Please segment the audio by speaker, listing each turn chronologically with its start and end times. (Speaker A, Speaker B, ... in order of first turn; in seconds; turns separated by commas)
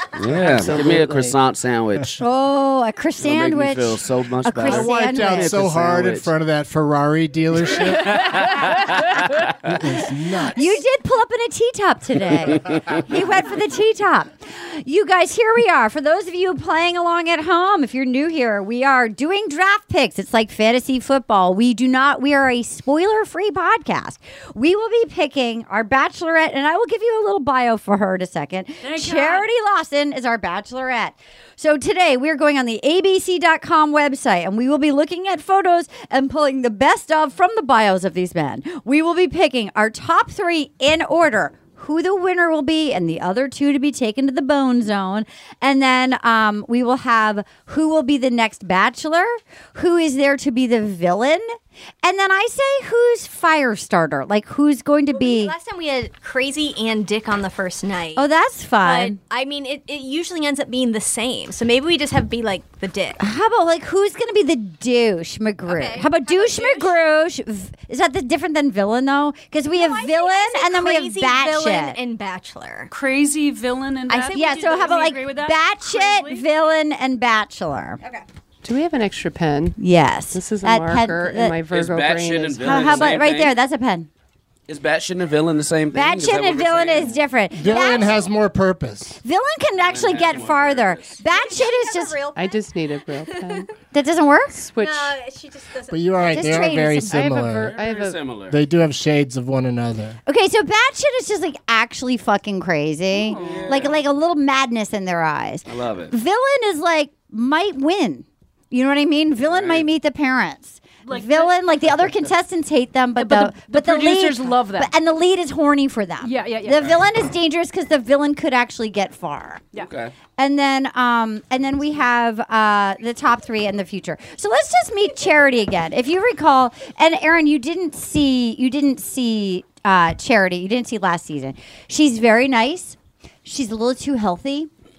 Speaker A: 0.1-2.2, Speaker B: 0.5-1.3, Speaker C: 0.5-1.0, Speaker D: 2.2-5.5, Speaker A: 3.2-6.3, Speaker C: 4.6-8.9, Speaker A: 8.0-9.5, Speaker C: 9.6-10.8, Speaker D: 10.5-51.5, Speaker E: 28.8-29.5, Speaker D: 52.0-55.5, Speaker F: 55.1-58.3, Speaker D: 58.1-59.2, Speaker F: 58.8-63.2, Speaker D: 63.2-72.0, Speaker F: 65.7-67.0, Speaker F: 69.7-72.9, Speaker E: 72.9-76.5, Speaker F: 74.1-75.3, Speaker D: 74.3-78.0, Speaker B: 78.6-79.8, Speaker D: 79.8-81.6, Speaker B: 80.3-83.2, Speaker A: 81.7-83.5, Speaker D: 82.6-84.1, Speaker A: 84.7-88.3, Speaker D: 85.9-88.2, Speaker C: 87.5-89.2, Speaker D: 89.2-92.2, Speaker A: 89.8-91.2, Speaker F: 91.3-93.6, Speaker B: 92.3-93.7, Speaker D: 93.9-94.6, Speaker B: 94.5-95.1, Speaker F: 94.8-96.9, Speaker C: 95.9-97.8, Speaker D: 96.3-97.2, Speaker B: 97.0-98.2, Speaker A: 97.5-98.6, Speaker C: 98.5-100.2, Speaker D: 100.2-119.7, Speaker E: 103.1-103.9, Speaker A: 103.3-104.0, Speaker A: 105.7-106.1, Speaker A: 109.4-109.9, Speaker E: 111.0-111.5, Speaker E: 113.2-114.9, Speaker E: 116.2-117.0, Speaker A: 119.7-120.1, Speaker D: 120.4-134.7